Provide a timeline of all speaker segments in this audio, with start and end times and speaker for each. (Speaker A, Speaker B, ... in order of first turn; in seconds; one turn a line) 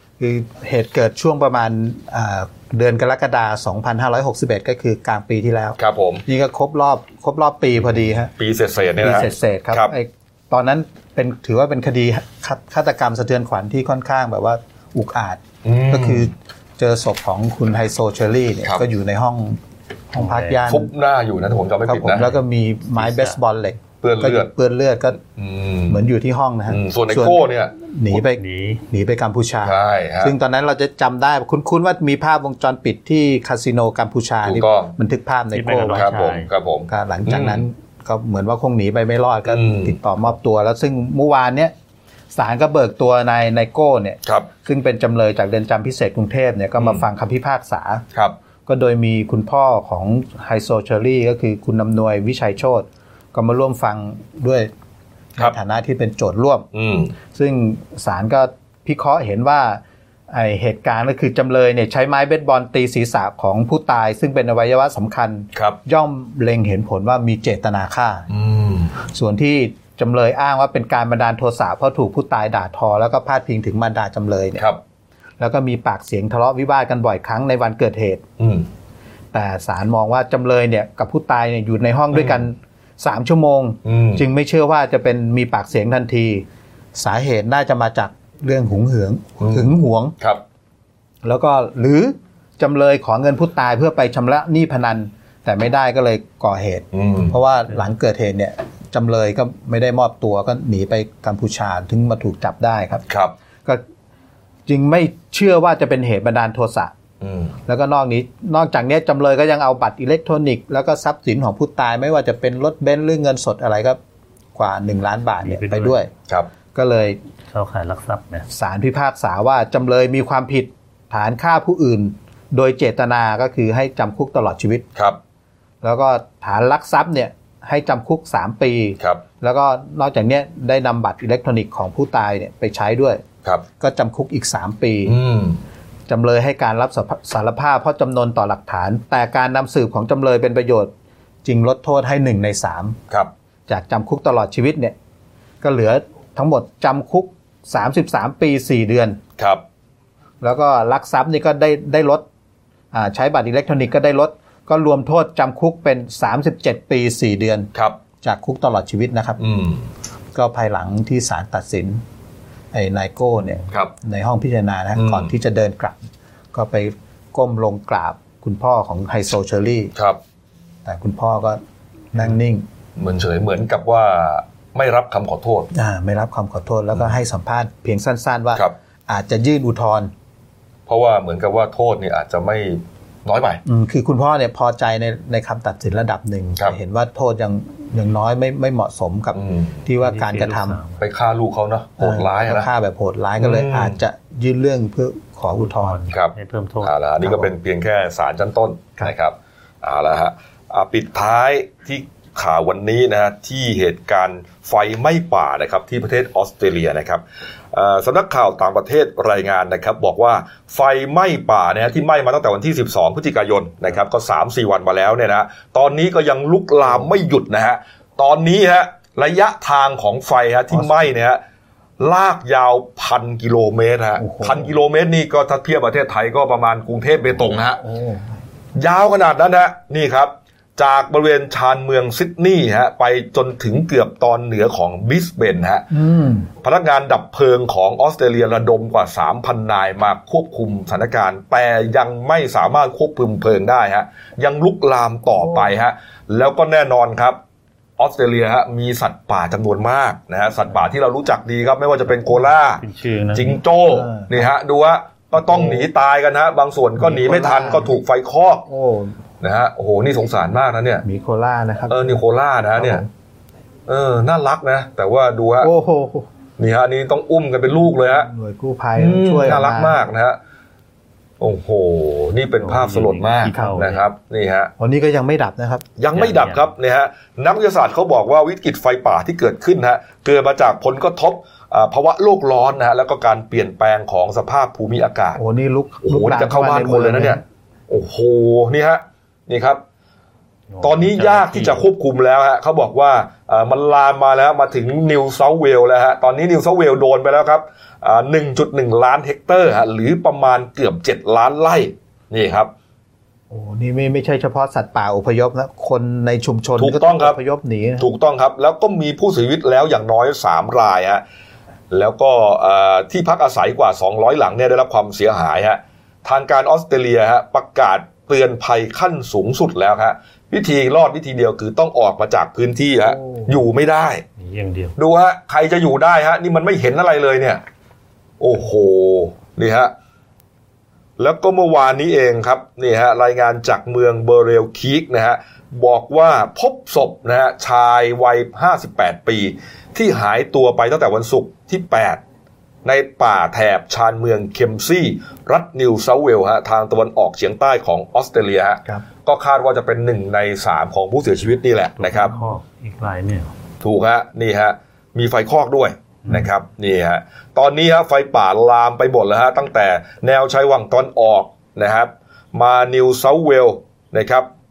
Speaker A: 0.2-8.3
Speaker B: 5.8-6.2
Speaker B: 8.3-9.9
Speaker A: 9.0-19.6
Speaker B: 15.6-16.3
Speaker A: 20.1-20.9
Speaker C: 20.2-20.6
Speaker B: 20.6-22.4
Speaker A: 21.9-25.2
Speaker C: 23.0-23.4
Speaker B: 24.0-24.5
Speaker B: 25.2-26.0
Speaker A: 25.9-36.2
Speaker B: 26.7-27.8
Speaker C: 28.1-28.8
Speaker B: 29.6-30.3
Speaker B: 34.4-35.0
Speaker C: 35.5-36.5
Speaker B: 35.9-37.6
Speaker A: 36.9-41.7
Speaker B: 39.5-40.0
Speaker A: 42.3-48.0
Speaker B: 46.8-47.0
Speaker A: 48.6-54.7
Speaker A: 55.4-56.7
Speaker B: 56.7-57.1
Speaker A: 57.3-68.3
Speaker B: 68.3-69.0
Speaker A: 69.0-74.6
Speaker A: 75.4-78.2
Speaker B: 78.4-78.7
Speaker A: 79.3-90.1
Speaker B: 82.1-82.4
Speaker B: 83.8-84.2
Speaker B: 89.4-90.4
Speaker A: 91.2-103.0
Speaker B: 96.9-97.4
Speaker B: 103.1-103.3
Speaker A: 104.7-106.9
Speaker B: 107.2-107.5
Speaker A: 107.7-114.0
Speaker A: 114.5-116.1
Speaker C: 115.4-115.9
Speaker A: 116.7-117.2
Speaker C: 117.5-118.5
Speaker A: 118.5-124.9
Speaker A: 125.8-133.2
Speaker A: 133.8-135.2
Speaker B: 135.0-135.6
Speaker A: 136.1-140.9
Speaker A: 141.4-143.0
Speaker A: 143.7-144.9
Speaker A: 145.6-149.2
Speaker B: 149.4-149.6
Speaker A: 150.4-152.2
Speaker A: 152.9-157.7
Speaker B: 157.7-158.0
Speaker A: 158.2-159.5
Speaker B: 159.4-159.8
Speaker A: 160.3-162.0
Speaker A: 162.7-166.0
Speaker B: 164.9-165.3
Speaker A: 166.5-169.9
Speaker A: 170.8-171.6
Speaker A: 172.1-172.6
Speaker B: 173.0-175.7
Speaker A: 175.7-180.1
Speaker B: 180.9-183.6
Speaker A: 183.7-190.8
Speaker B: 189.3-189.8
Speaker C: 190.0-191.0
Speaker B: 191.0-192.7
Speaker A: 192.0-196.1
Speaker B: 193.4-194.0
Speaker C: 195.6-196.9
Speaker B: 196.1-207.2
Speaker A: 197.2-197.5
Speaker B: 207.7-221.4
Speaker A: 220.7-221.1
Speaker B: 222.0-227.8
Speaker A: 224.2-224.7
Speaker A: 227.8-228.3
Speaker B: 228.8-235.9
Speaker A: 235.9-236.5
Speaker B: 236.6-247.4
Speaker A: 245.4-245.7
Speaker B: 248.0-258.7
Speaker C: 252.8-253.6
Speaker A: 253.9-254.4
Speaker A: 255.4-255.9
Speaker A: 257.0-257.9
Speaker A: 258.7-259.1
Speaker B: 259.4-261.0
Speaker A: 261.0-262.2
Speaker B: 261.9-263.0
Speaker A: 262.8-263.1
Speaker B: 263.9-265.7
Speaker A: 265.6-266.3
Speaker B: 266.6-268.3
Speaker A: 268.1-270.0
Speaker B: 268.9-270.4
Speaker B: 271.4-274.7
Speaker C: 272.6-274.0
Speaker A: 273.4-273.8
Speaker A: 274.8-275.9
Speaker B: 276.0-285.4
Speaker C: 276.1-276.7
Speaker A: 285.3-287.4
Speaker B: 286.0-289.8
Speaker C: 290.7-291.8
Speaker B: 290.8-302.7
Speaker A: 303.5-308.1
Speaker B: 306.8-307.4
Speaker B: 308.0-311.2
Speaker B: 311.9-324.2
Speaker A: 323.1-323.5
Speaker C: 324.4-324.9
Speaker B: 324.9-327.6
Speaker B: 328.4-329.9
Speaker B: 331.2-342.2
Speaker B: 342.8-352.3
Speaker C: 352.0-353.5
Speaker B: 353.8-364.5